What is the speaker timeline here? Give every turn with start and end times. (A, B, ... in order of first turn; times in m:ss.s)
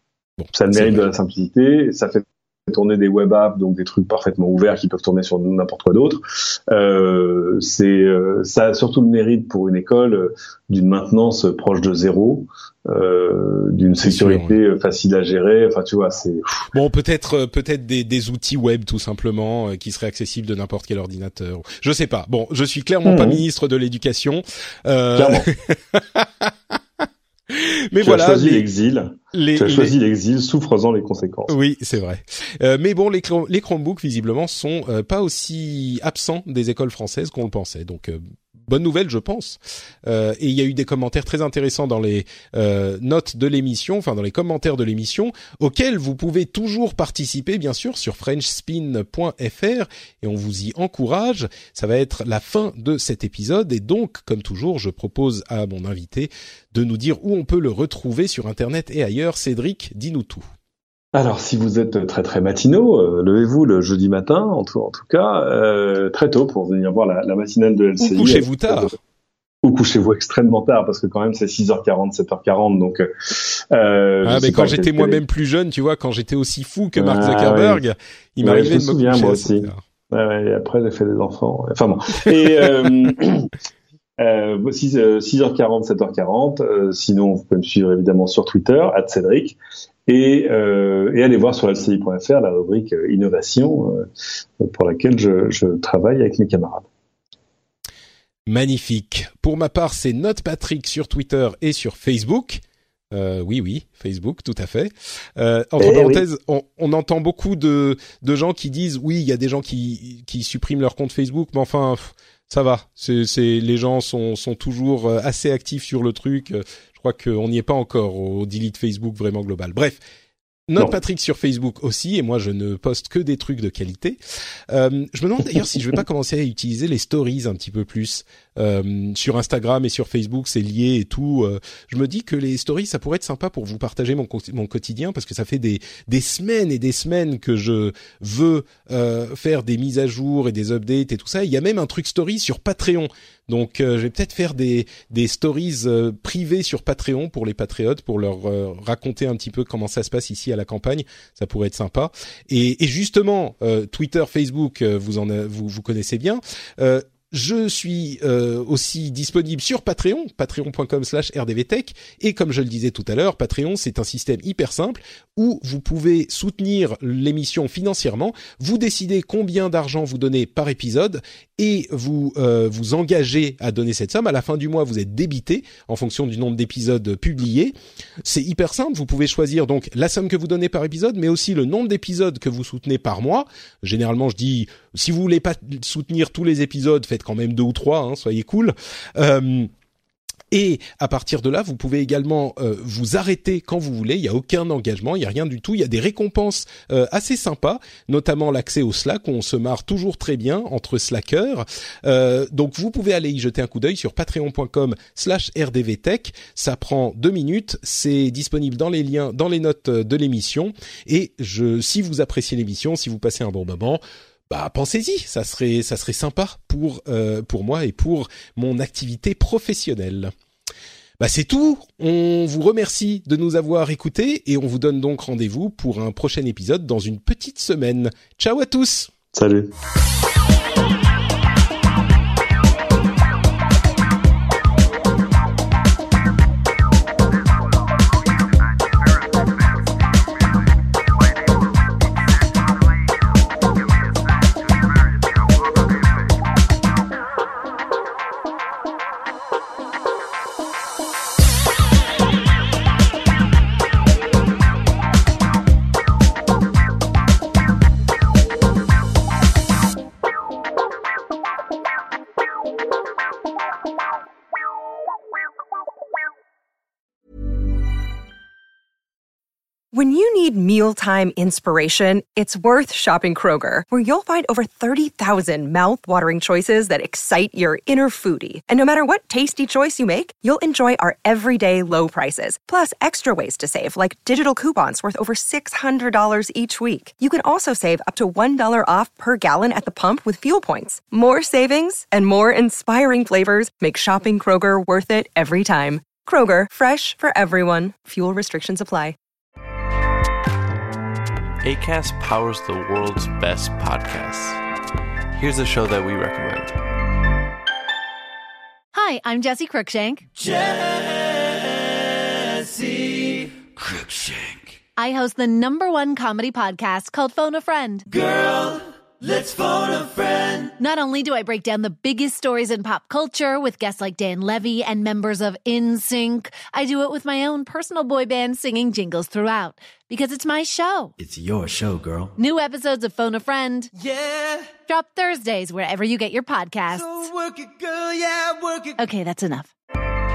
0:00.4-0:01.1 A
0:00.5-0:16.7 B
0:14.0-0:14.6 A
0:16.7-0:28.6 A
0:23.0-0:23.4 B
0:25.1-0:25.5 B
0:28.0-0:31.5 B
0:29.3-0:29.9 A
0:31.5-1:00.5 A
1:01.1-1:08.9 B
1:08.0-1:08.9 A
1:09.6-1:15.2 B
1:14.2-1:19.8 A
1:17.0-1:17.8 B
1:18.4-1:23.5 B
1:24.2-1:34.1 B
1:34.6-1:36.9 B
1:38.5-1:42.6 A
1:43.1-2:00.0 A
1:45.8-1:46.2 B
2:00.7-2:04.2 A
2:04.7-3:09.7 A
3:10.5-3:40.3 A
3:41.2-3:49.1 A
3:49.3-3:49.7 B
4:29.9-4:59.2 C
5:01.6-5:04.6 D
5:05.4-5:06.8 D
5:08.9-5:10.2 E
5:15.0-5:18.1 E
5:18.3-5:18.8 F
5:19.5-5:20.4 F
5:20.8-5:31.1 E
5:31.2-5:32.3 F
5:32.4-5:33.9 E
5:34.8-5:37.3 E
5:37.4-5:38.8 F
5:38.9-5:39.7 E